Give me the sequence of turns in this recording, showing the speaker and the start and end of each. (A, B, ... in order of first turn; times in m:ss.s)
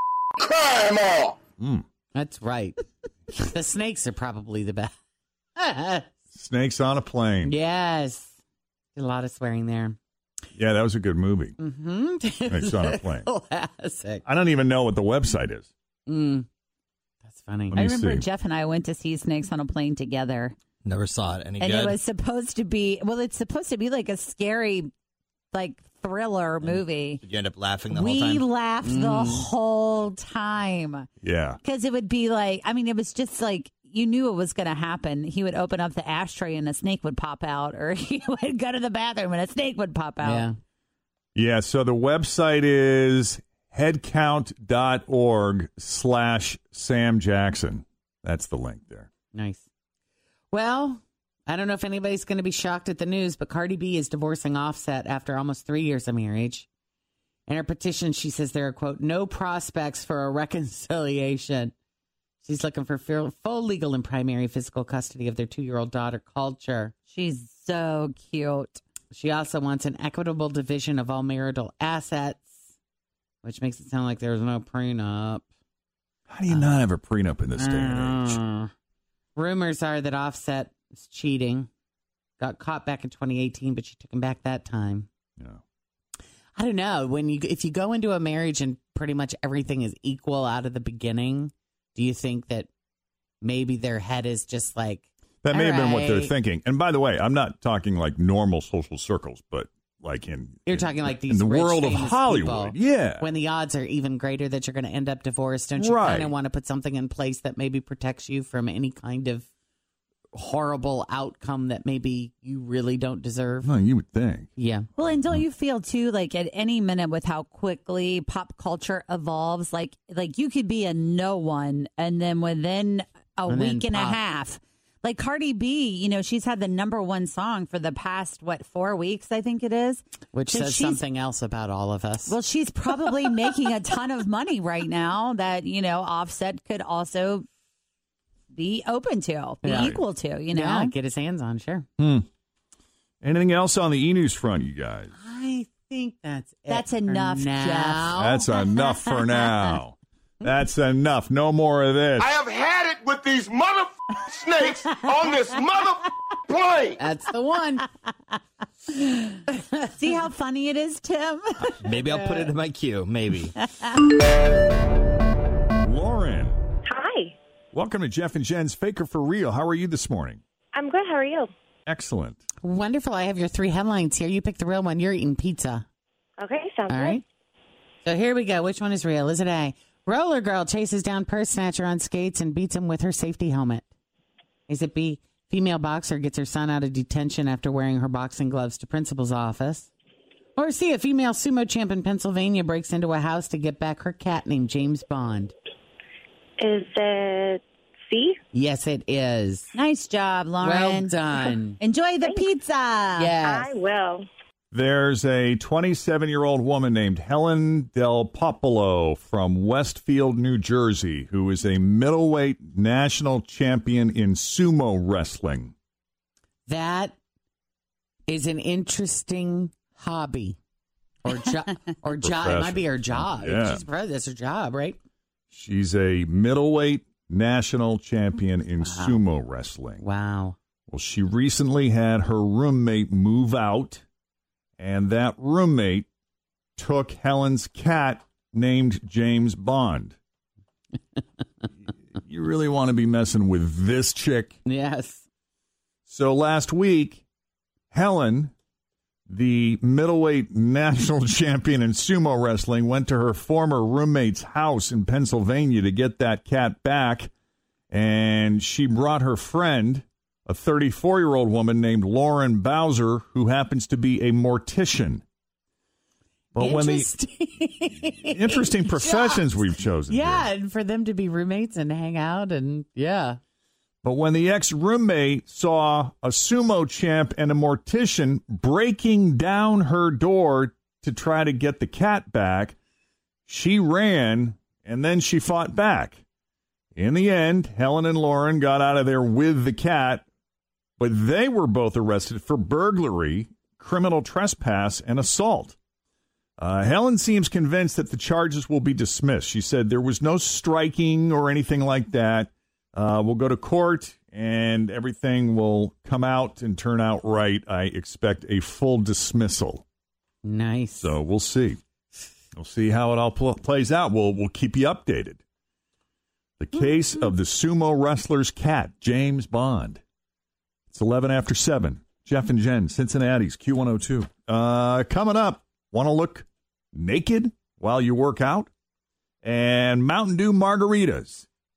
0:00.4-0:01.4 A
0:01.6-0:01.8 B
0:02.1-0:04.9 C
0:05.6-0:06.1 C
0:06.3-0:07.5 B
0:07.4-0:08.3 C
0:09.0-0:10.0 C
0:10.6-0:11.6 B
0:11.6-0:14.2 C
0:12.5-0:13.3 B
0:14.3-0:15.7 B
0:16.1-0:16.5 C
0:17.2-0:17.8 C
0:17.7-0:18.2 B
0:17.7-0:20.6 D
0:20.8-0:21.7 E
0:21.6-0:24.9 D
0:21.7-0:22.0 B
0:25.5-0:27.2 D
0:26.6-0:28.5 E
0:27.9-0:31.1 D
0:28.8-0:29.5 C
0:31.2-0:31.6 B
0:31.6-0:40.5 D
0:40.2-0:40.5 C
0:41.4-0:49.1 B
0:49.3-0:49.7 C
0:50.5-0:56.7 C
0:57.5-1:01.7 C
1:02.4-1:06.9 C
1:07.1-1:08.8 D
1:09.1-1:12.5 C
1:13.4-1:15.4 C
1:16.3-1:18.4 B
1:16.5-1:16.8 C
1:17.6-1:18.7 C
1:19.4-1:21.7 C
1:22.4-1:25.1 C
1:26.6-1:32.7 C
1:33.4-1:36.3 C
1:35.4-1:43.3 B
1:40.7-1:49.5 C
1:45.8-1:46.3 B
1:50.3-1:53.7 C
1:53.6-1:54.5 B
1:54.6-1:54.9 C
1:55.0-2:11.0 D
2:03.5-2:04.2 C
2:10.3-2:12.4 C
2:12.3-2:17.5 D
2:18.5-2:20.9 D
2:19.6-2:20.0 C
2:20.5-2:21.9 C
2:22.0-2:22.3 B
2:23.2-2:25.1 B
2:25.2-2:28.4 C
2:26.7-2:28.1 D
2:28.2-2:32.4 B
2:32.2-2:37.0 A
2:37.0-2:37.9 C
2:39.9-2:41.9 D
2:41.8-2:43.6 E
2:45.8-2:46.6 B
2:46.9-2:47.3 F
2:47.7-2:50.4 B
2:50.7-2:51.5 F
2:51.9-2:52.4 B
2:52.6-2:55.9 C
2:56.4-2:57.2 F
2:56.9-2:57.2 C
2:58.0-3:03.9 C
3:04.7-3:09.9 C
3:10.6-3:15.5 C
3:16.6-3:18.4 F
3:18.5-3:19.7 C
3:19.8-3:23.4 D
3:20.6-3:21.8 C
3:23.2-3:23.8 C
3:23.4-3:24.2 F
3:24.7-3:35.7 B
3:36.7-3:37.2 C
3:38.3-3:40.6 C
3:41.2-3:45.0 C
3:42.2-3:43.8 B
3:45.5-3:50.0 B
3:48.8-3:49.2 C
3:50.0-3:50.6 C
3:50.9-3:54.0 B
3:54.8-3:56.1 B
3:56.8-4:00.2 B
4:02.2-4:04.6 B
4:04.7-4:05.2 C
4:06.1-4:07.2 B
4:07.9-4:08.5 B
4:09.3-4:17.3 B
4:17.9-4:25.2 B
4:26.6-4:27.1 B
4:26.6-4:33.4 C
4:28.3-4:30.5 B
4:34.0-4:42.8 B
4:43.5-4:46.2 B
4:47.0-4:50.2 B
4:51.0-4:55.8 B
4:56.6-5:09.8 B
5:10.4-5:11.1 C
5:11.0-5:11.8 B
5:12.6-5:15.4 B
5:16.6-5:20.0 B
5:20.9-5:28.7 B
5:29.4-5:31.5 B